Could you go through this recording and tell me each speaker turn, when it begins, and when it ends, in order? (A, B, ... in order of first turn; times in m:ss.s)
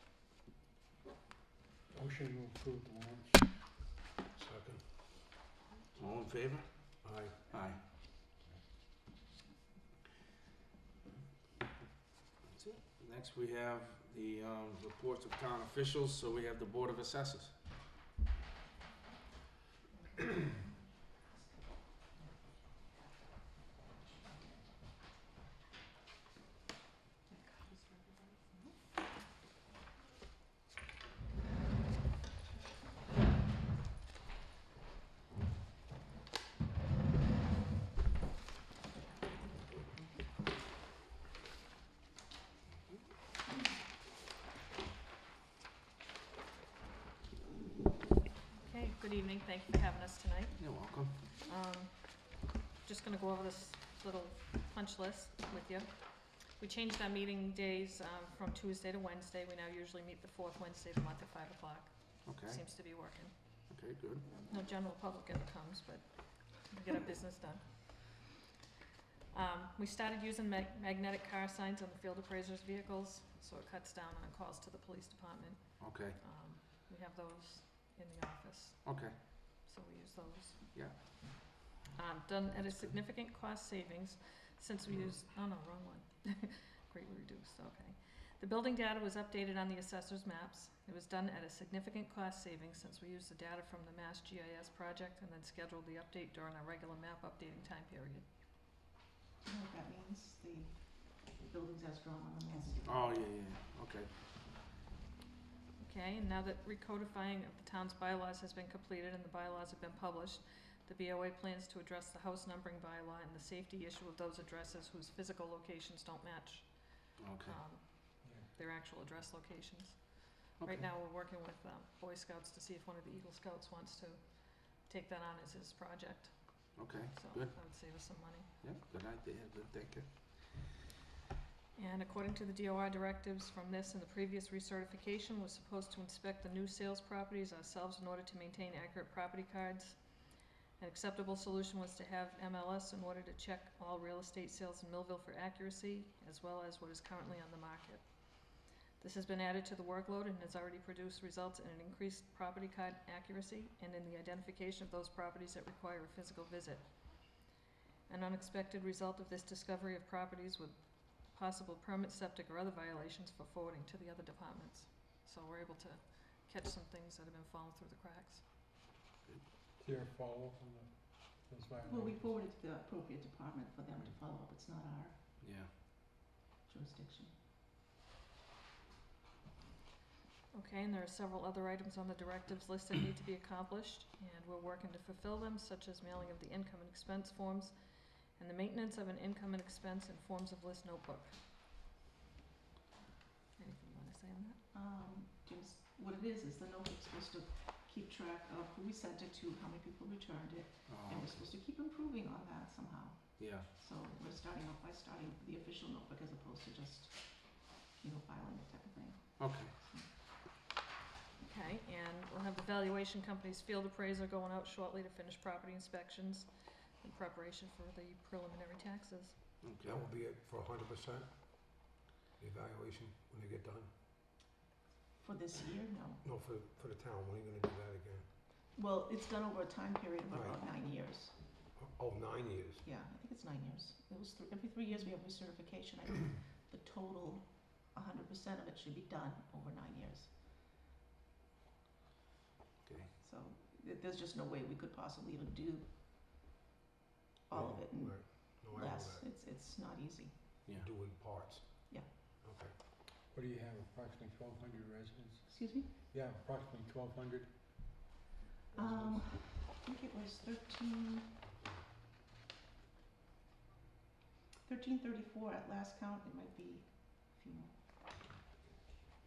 0:01.9-0:03.8 A
0:04.4-0:05.0 B
0:06.0-0:07.8 C
0:07.0-0:07.8 B
0:12.4-0:17.6 C
0:27.5-0:28.3 D
0:48.6-1:03.6 D
0:50.6-0:51.2 C
1:02.2-1:02.6 C
1:03.7-1:04.3 C
1:04.5-1:08.3 D
1:09.3-1:21.3 D
1:15.8-1:16.2 C
1:18.8-1:19.2 C
1:21.9-1:38.3 D
1:39.4-1:43.0 E
1:42.9-1:44.1 C
1:45.8-2:08.6 D
1:57.2-1:57.6 C
1:58.2-1:58.5 A
2:06.8-2:10.1 C
2:11.8-2:37.4 D
2:38.1-2:48.4 D
2:49.8-2:52.3 A
2:51.8-2:55.3 E
2:55.4-2:55.7 C
2:56.6-2:57.4 E
3:00.5-3:11.4 D
3:13.6-3:14.6 D
3:14.7-3:30.1 E
3:20.9-3:21.4 C
3:23.4-3:23.7 C
3:29.4-3:29.8 C
3:31.4-3:39.4 D
3:39.6-3:40.0 C
3:39.8-3:43.9 B
3:45.1-3:46.2 E
3:46.2-3:48.3 B
3:48.7-3:51.6 E
3:51.8-3:52.8 B
3:52.8-4:00.4 E
4:02.8-4:03.2 C
4:03.2-4:06.0 E
4:07.5-4:10.6 E
4:07.5-4:09.3 B
4:10.8-4:12.7 B
4:11.9-4:12.3 E
4:13.2-4:18.1 A
4:15.5-4:15.9 E
4:18.8-4:19.1 A
4:18.8-4:21.4 E
4:24.6-4:28.0 E